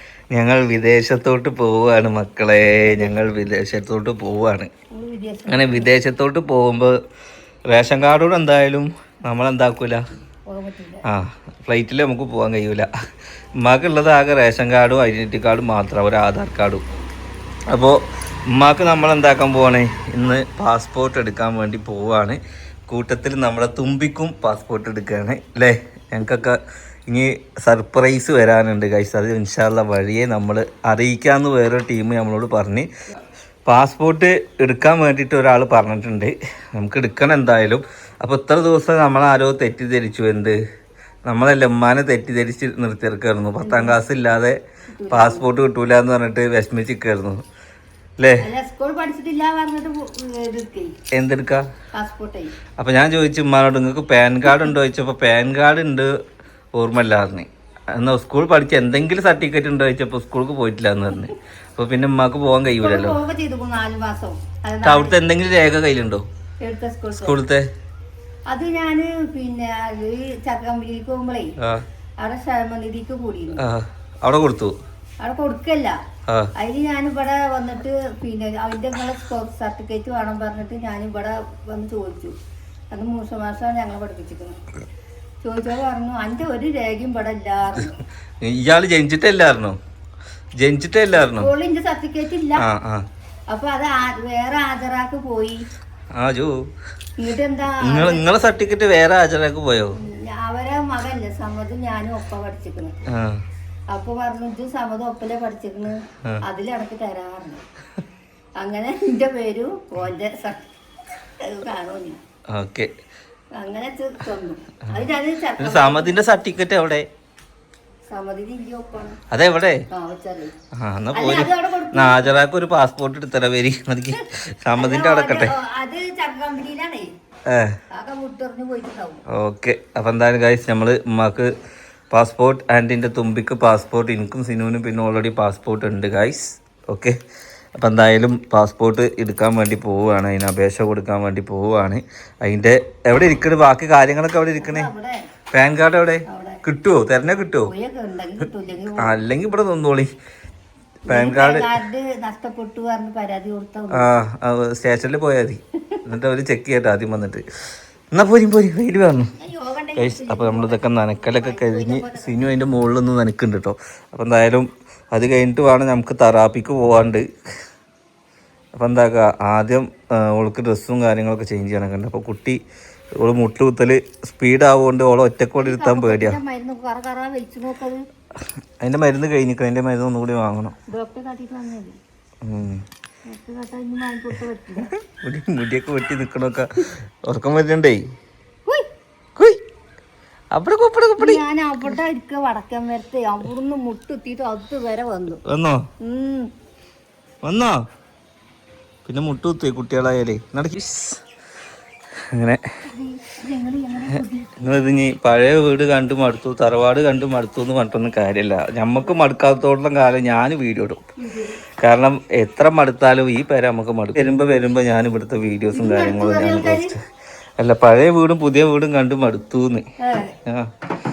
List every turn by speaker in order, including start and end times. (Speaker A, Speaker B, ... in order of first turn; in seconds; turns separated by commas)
Speaker A: 0.3-4.7, Speaker B: 4.9-5.9, Speaker A: 5.5-6.9, Speaker A: 7.7-10.0, Speaker B: 10.5-11.0, Speaker A: 11.1-12.9, Speaker A: 13.6-16.8, Speaker A: 17.7-18.0, Speaker A: 18.5-32.9, Speaker A: 33.6-40.6, Speaker A: 41.2-44.6, Speaker B: 43.6-44.0, Speaker B: 44.9-45.5, Speaker A: 45.1-47.4, Speaker A: 48.2-48.4, Speaker B: 48.4-50.9, Speaker A: 51.1-51.6, Speaker B: 51.9-52.5, Speaker A: 52.8-56.1, Speaker A: 56.7-63.2, Speaker B: 62.8-65.2, Speaker A: 64.8-66.2, Speaker B: 66.6-67.4, Speaker A: 67.2-67.7, Speaker B: 68.5-71.5, Speaker B: 72.2-73.6, Speaker A: 73.6-74.7, Speaker B: 75.2-75.9, Speaker B: 76.6-82.3, Speaker B: 82.9-84.6, Speaker B: 85.4-88.0, Speaker A: 88.4-89.8, Speaker A: 90.6-91.5, Speaker B: 91.3-92.6, Speaker A: 92.6-93.0, Speaker B: 93.5-95.6, Speaker A: 96.1-96.6, Speaker B: 97.2-98.2, Speaker A: 97.8-100.0, Speaker B: 100.0-102.9, Speaker A: 103.1-103.4, Speaker B: 103.9-107.6, Speaker B: 108.6-110.6, Speaker B: 111.4-112.2, Speaker A: 112.5-112.9, Speaker B: 113.5-116.2, Speaker A: 115.6-117.0, Speaker B: 118.1-119.2, Speaker A: 119.3-119.8, Speaker B: 119.9-120.5, Speaker A: 120.8-125.5, Speaker B: 121.1-122.4, Speaker B: 124.8-127.1, Speaker A: 127.5-127.8, Speaker B: 127.9-129.2, Speaker A: 129.3-131.5, Speaker A: 132.1-137.2, Speaker A: 137.8-144.9, Speaker B: 144.6-145.2, Speaker A: 145.5-147.7, Speaker B: 146.3-146.6, Speaker B: 147.7-149.2, Speaker A: 149.0-150.1, Speaker A: 151.1-151.8, Speaker B: 151.1-154.1, Speaker A: 153.9-157.4, Speaker A: 158.1-159.3, Speaker B: 159.4-162.4, Speaker A: 160.0-167.2, Speaker A: 168.7-172.6, Speaker A: 173.2-176.4, Speaker B: 175.6-178.0, Speaker A: 178.8-180.7, Speaker B: 180.9-182.0, Speaker A: 182.4-182.8, Speaker B: 183.3-184.9, Speaker A: 185.0-188.0, Speaker A: 190.5-191.4, Speaker B: 191.2-195.4, Speaker A: 195.4-195.8, Speaker B: 196.0-196.5, Speaker A: 197.4-197.8, Speaker A: 199.0-201.2, Speaker A: 202.3-202.6, Speaker B: 202.9-204.5, Speaker A: 204.6-211.0, Speaker B: 211.2-211.6, Speaker A: 211.8-217.0, Speaker B: 215.7-216.9, Speaker A: 217.6-219.8, Speaker B: 220.0-220.3